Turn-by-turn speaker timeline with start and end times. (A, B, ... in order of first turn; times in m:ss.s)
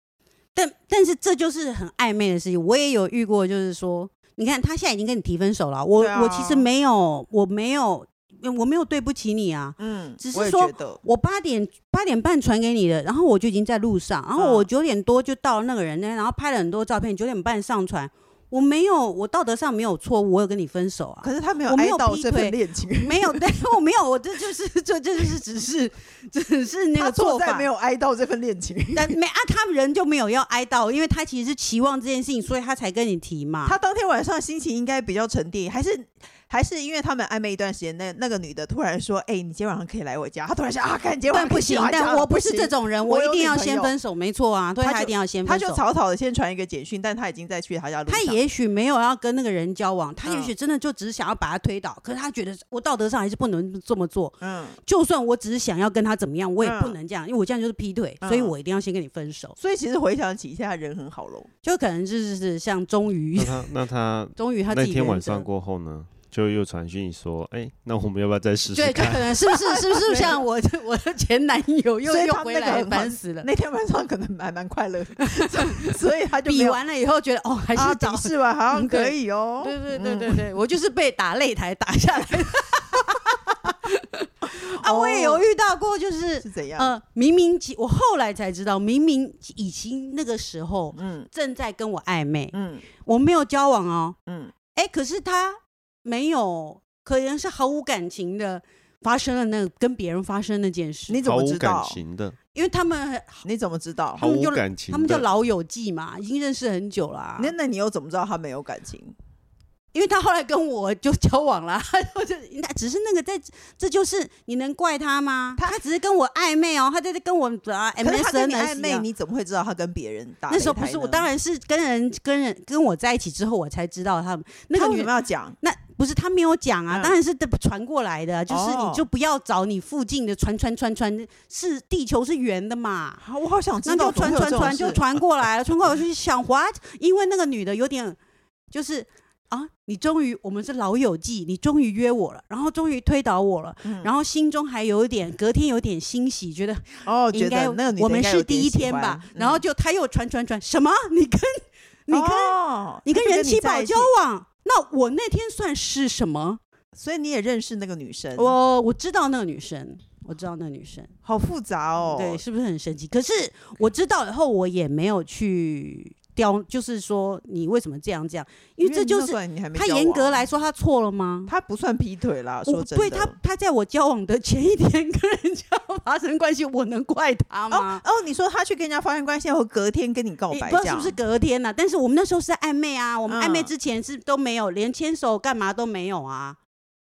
0:00.5-0:27.7 A
0:06.0-0:06.6 B
0:09.8-0:11.0 B
0:14.4-0:14.7 B
0:21.2-0:23.4 B
0:27.0-0:29.1 B
0:28.9-0:33.8 A
0:33.6-0:43.9 B
0:41.3-0:45.8 A
0:44.8-0:48.4 B
0:48.1-0:59.6 A
0:50.2-0:50.5 B
0:54.4-0:54.8 B
0:56.6-0:57.0 B
0:58.2-0:58.5 B
0:59.6-1:01.5 B
1:01.6-1:03.7 A
1:03.3-1:09.4 C
1:04.4-1:05.5 A
1:08.7-1:13.5 A
1:09.6-1:10.4 B
1:12.0-1:16.8 B
1:15.2-1:15.9 A
1:16.4-1:34.2 A
1:17.7-1:20.4 B
1:24.6-1:25.4 B
1:26.4-1:26.9 B
1:31.0-1:31.3 B
1:32.5-1:32.8 B
1:34.3-1:34.5 B
1:34.7-1:41.2 A
1:41.1-1:42.0 B
1:41.2-1:42.4 C
1:42.5-1:43.4 A
1:43.4-1:44.2 B
1:44.2-1:45.3 C
1:44.2-1:47.5 A
1:47.4-1:49.1 B
1:49.9-1:59.0 A
1:58.0-2:01.3 B
2:00.5-2:13.2 A
2:04.7-2:05.6 B
2:06.9-2:07.2 B
2:08.5-2:09.0 B
2:13.2-2:15.0 B
2:13.8-2:18.2 A
2:18.7-2:36.6 A
2:23.8-2:24.1 B
2:27.0-2:29.6 B
2:32.1-2:34.1 B
2:37.0-2:38.5 B
2:38.4-2:41.1 A
2:41.2-2:42.4 B
2:42.1-2:51.5 A
2:48.8-2:50.4 B
2:51.5-2:53.3 B
2:52.6-2:58.0 A
2:57.7-3:01.2 B
3:00.5-3:06.6 A
3:03.3-3:03.7 B